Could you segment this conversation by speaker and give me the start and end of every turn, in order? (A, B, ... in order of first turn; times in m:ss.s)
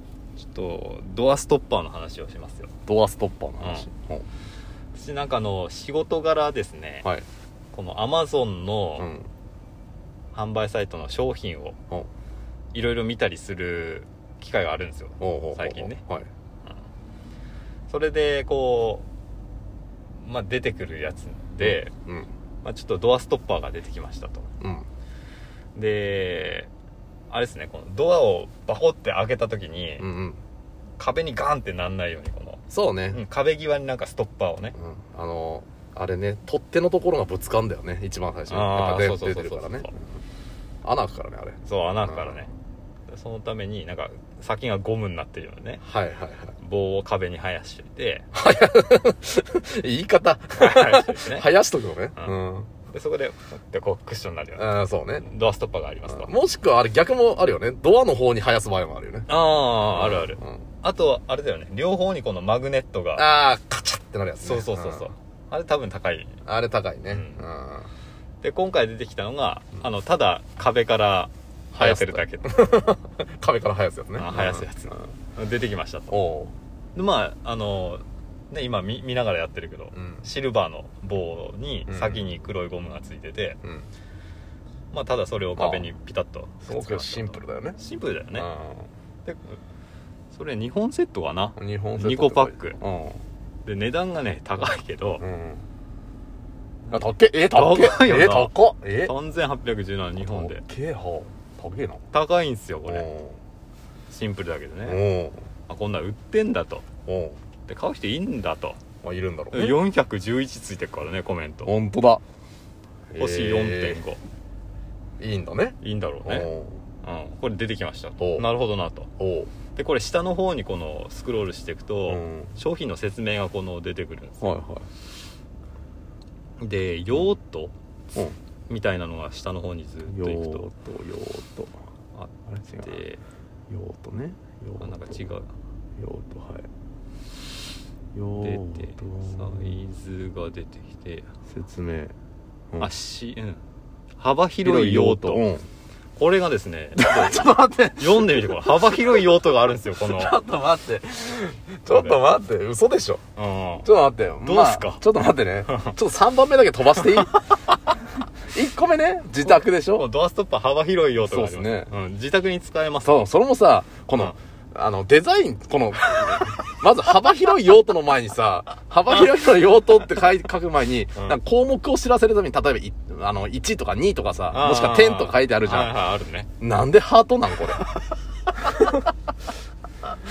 0:00.4-0:02.7 A
0:02.8-0:04.2 B
0:03.6-0:03.9 A
0:04.9-0:07.1 A
0:07.7-0:09.1 A
0:09.0-0:09.3 B
0:10.3-0:11.8 A
0:12.7-0:16.0 A
0:15.2-0:16.3 B
0:17.9-0:19.0 A
0:20.2-0:21.9 A
0:21.6-0:22.3 B
0:22.6-0:24.5 A
0:24.6-0:24.8 B
0:25.7-0:26.7 A
0:27.3-0:30.0 A
0:30.0-0:30.4 B
0:31.0-0:34.7 A
0:32.7-0:33.2 B
0:34.8-0:39.9 B
0:38.5-0:39.9 A
0:40.8-0:42.4 B
0:41.6-0:42.5 A
0:43.1-0:45.8 A
0:45.8-0:46.5 B
0:46.6-0:48.3 A
0:48.3-0:52.7 B
0:50.6-0:51.5 A
0:52.8-0:56.3 A
0:54.6-0:55.2 B
0:56.1-1:00.6 B
0:59.3-1:03.2 A
1:03.2-1:05.1 B
1:04.4-1:06.3 A
1:06.4-1:07.9 B
1:07.1-1:07.4 A
1:08.4-1:12.8 A
1:11.7-1:14.9 B
1:14.2-1:16.1 A
1:16.1-1:16.5 B
1:16.9-1:23.6 A
1:19.9-1:20.2 B
1:21.9-1:22.2 B
1:24.9-1:28.5 A
1:25.6-1:25.9 B
1:26.6-1:27.8 B
1:28.3-1:28.9 B
1:29.2-1:29.6 A
1:30.3-1:32.8 A
1:31.6-1:33.2 B
1:33.6-1:35.2 A
1:35.2-1:35.6 B
1:36.9-1:39.1 B
1:37.5-1:40.6 A
1:40.2-1:42.0 B
1:42.1-1:43.1 A
1:42.8-1:43.4 B
1:44.1-1:45.0 A
1:44.8-1:45.4 B
1:45.7-1:46.8 A
1:47.0-1:47.4 B
1:47.6-1:48.8 A
1:49.0-1:49.8 B
1:49.5-1:51.7 A
1:51.6-1:52.2 B
1:53.1-1:54.0 B
1:53.2-1:54.2 A
1:55.2-1:56.8 B
1:55.8-1:56.5 A
1:57.0-1:59.1 A
1:58.2-1:58.5 B
1:59.2-1:59.5 B
1:59.7-2:04.6 A
2:02.0-2:02.5 B
2:04.4-2:04.9 B
2:06.6-2:07.7 A
2:08.7-2:10.6 A
2:10.1-2:11.7 B
2:12.1-2:13.2 A
2:12.5-2:13.0 B
2:13.7-2:15.3 B
2:14.8-2:15.5 A
2:16.0-2:16.7 B
2:18.1-2:19.8 B
2:18.4-2:21.3 A
2:21.5-2:22.1 B
2:22.8-2:23.6 A
2:24.2-2:25.4 A
2:24.6-2:25.6 B
2:26.2-2:30.4 A
2:27.0-2:29.2 B
2:30.0-2:33.2 B
2:31.9-2:32.2 A
2:33.4-2:33.9 A
2:33.8-2:37.3 B
2:34.4-2:35.0 A
2:35.7-2:35.9 A
2:38.5-2:40.1 B
2:39.4-2:43.1 A
2:41.2-2:41.9 B
2:43.0-2:56.0 B
2:54.5-2:56.5 A
2:56.6-2:57.8 B